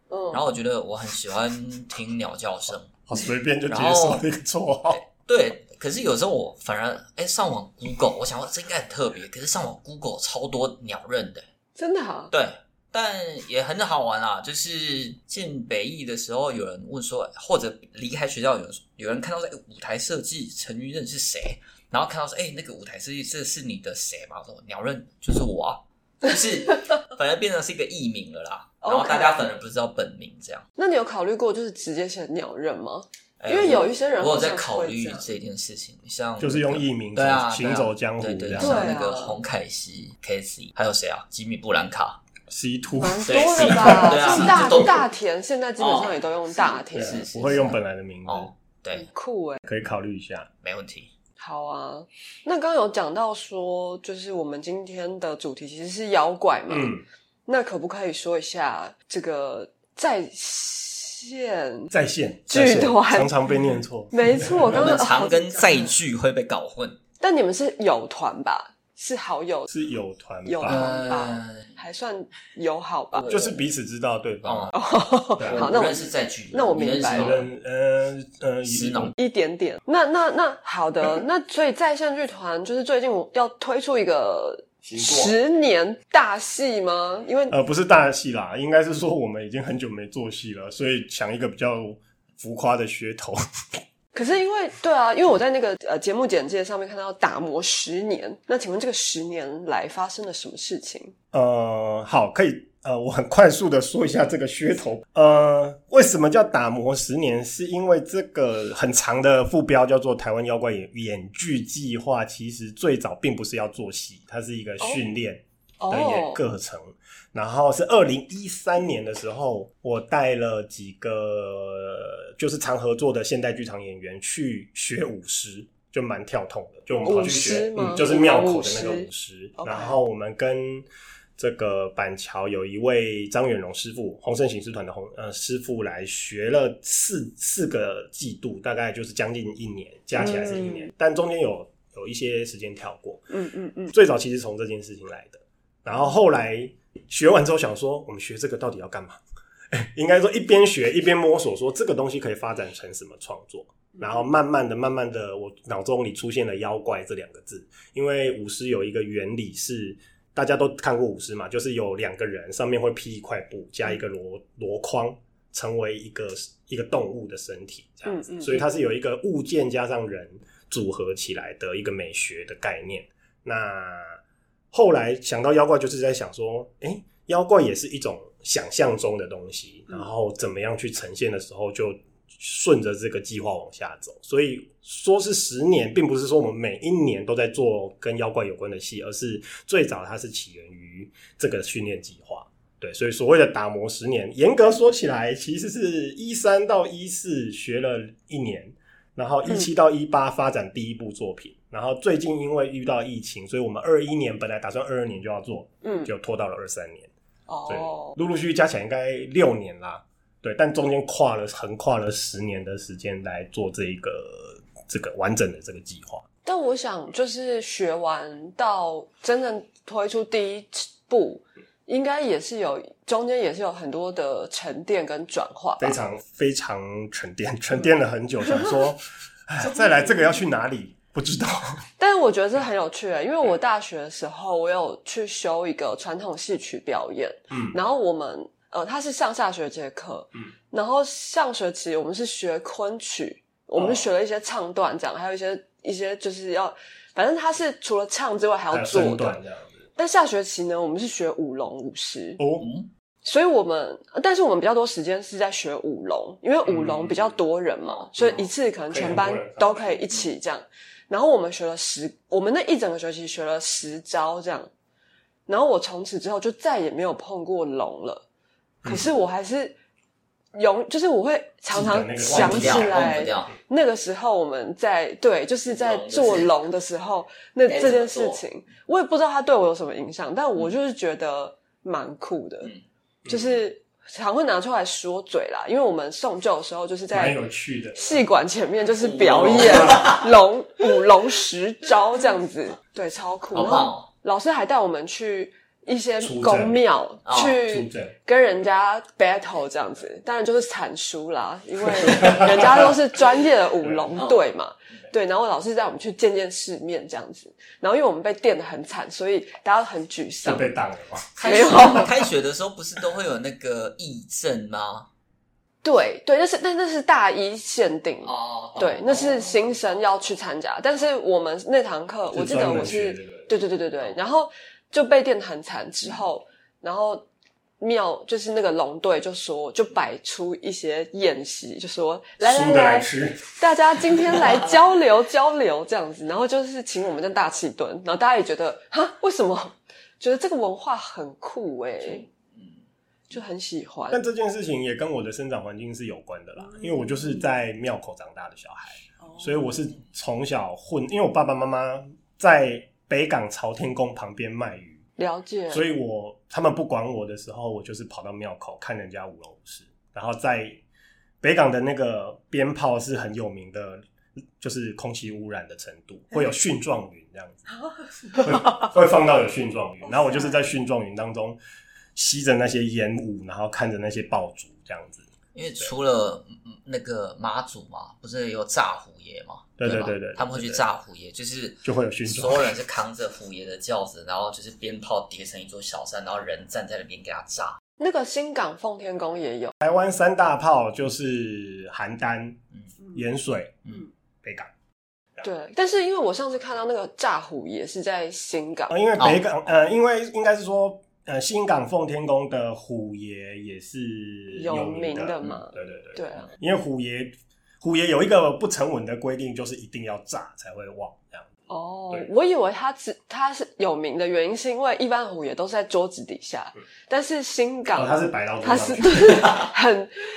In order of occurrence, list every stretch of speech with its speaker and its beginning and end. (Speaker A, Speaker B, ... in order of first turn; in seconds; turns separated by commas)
Speaker A: 0.1-0.4, Speaker B: 0.3-3.0, Speaker C: 3.1-5.0, Speaker B: 3.7-4.2, Speaker B: 4.9-11.4, Speaker A: 11.8-12.3, Speaker B: 12.3-30.6, Speaker A: 28.8-29.5, Speaker A: 30.8-35.3, Speaker B: 33.4-42.2, Speaker C: 36.4-38.9, Speaker A: 38.6-39.4, Speaker C: 42.5-44.9, Speaker A: 43.0-47.2, Speaker B: 43.3-45.1, Speaker B: 45.8-49.1, Speaker C: 46.9-48.5, Speaker A: 48.9-49.6, Speaker C: 49.6-50.5, Speaker B: 50.6-51.1, Speaker A: 51.4-56.9, Speaker C: 56.7-57.0, Speaker A: 57.5-61.9, Speaker C: 61.9-64.8, Speaker A: 62.5-63.3, Speaker A: 64.1-65.9, Speaker B: 64.7-67.0, Speaker A: 67.2-69.7, Speaker C: 69.7-70.9, Speaker A: 70.5-73.5, Speaker B: 70.6-71.7, Speaker B: 73.2-73.6, Speaker C: 73.3-74.7, Speaker B: 74.4-74.7, Speaker A: 74.7-77.4, Speaker C: 75.4-75.7, Speaker B: 75.5-77.5, Speaker C: 77.1-79.1, Speaker B: 78.7-79.1, Speaker A: 79.2-87.5, Speaker C: 84.8-85.3, Speaker C: 87.5-93.4, Speaker A: 94.1-101.1, Speaker C: 101.3-130.9, Speaker A: 115.8-116.4, Speaker A: 127.0-130.0, Speaker C: 131.4-143.3, Speaker A: 140.2-140.9, Speaker A: 143.3-143.9, Speaker C: 143.9-149.2, Speaker C: 149.7-174.2, Speaker A: 153.9-154.3, Speaker A: 168.1-168.7, Speaker C: 174.7-207.1, Speaker A: 205.8-206.1, Speaker A: 207.5-208.2, Speaker C: 207.7-216.2, Speaker A: 216.4-226.0, Speaker C: 225.8-231.8, Speaker A: 229.7-230.3, Speaker A: 232.0-249.4, Speaker C: 237.5-237.8, Speaker C: 243.8-244.1, Speaker C: 248.7-249.8, Speaker A: 250.0-252.4, Speaker C: 252.4-252.7, Speaker B: 252.6-252.9, Speaker A: 253.2-264.7, Speaker C: 256.7-257.1, Speaker C: 258.2-260.0, Speaker A: 265.5-268.2, Speaker C: 268.8-269.1, Speaker A: 268.9-269.8, Speaker A: 270.6-282.7, Speaker C: 271.7-273.2, Speaker B: 272.3-273.5, Speaker B: 275.7-276.5, Speaker B: 277.7-278.4, Speaker C: 283.2-283.6, Speaker A: 283.3-287.4, Speaker C: 287.1-288.2, Speaker A: 287.9-310.7, Speaker B: 289.0-290.3, Speaker C: 289.4-290.2, Speaker B: 293.5-294.1, Speaker C: 296.2-296.8, Speaker B: 297.3-297.6, Speaker C: 297.7-298.1, Speaker C: 302.0-302.9, Speaker C: 310.4-311.4, Speaker B: 311.4-315.1, Speaker A: 311.4-312.1, Speaker A: 315.8-327.3, Speaker B: 318.2-319.8, Speaker C: 322.3-323.5, Speaker A: 327.8-342.3, Speaker C: 332.4-333.4, Speaker A: 343.3-344.2, Speaker C: 344.1-355.0, Speaker A: 346.6-347.3, Speaker A: 349.2-349.8, Speaker A: 355.2-355.9, Speaker C: 355.7-360.8, Speaker C: 361.4-364.0, Speaker C: 364.6-367.7, Speaker C: 368.4-371.6, Speaker A: 370.2-370.5, Speaker C: 372.2-375.9, Speaker B: 375.5-387.8, Speaker C: 379.8-380.8, Speaker C: 381.8-382.8, Speaker A: 388.0-389.7, Speaker C: 389.8-392.6, Speaker C: 393.1-393.8, Speaker C: 394.4-394.7, Speaker A: 395.4-398.9, Speaker C: 398.9-411.5, Speaker A: 404.5-406.5, Speaker A: 411.7-420.1, Speaker C: 417.9-419.5, Speaker B: 419.4-419.6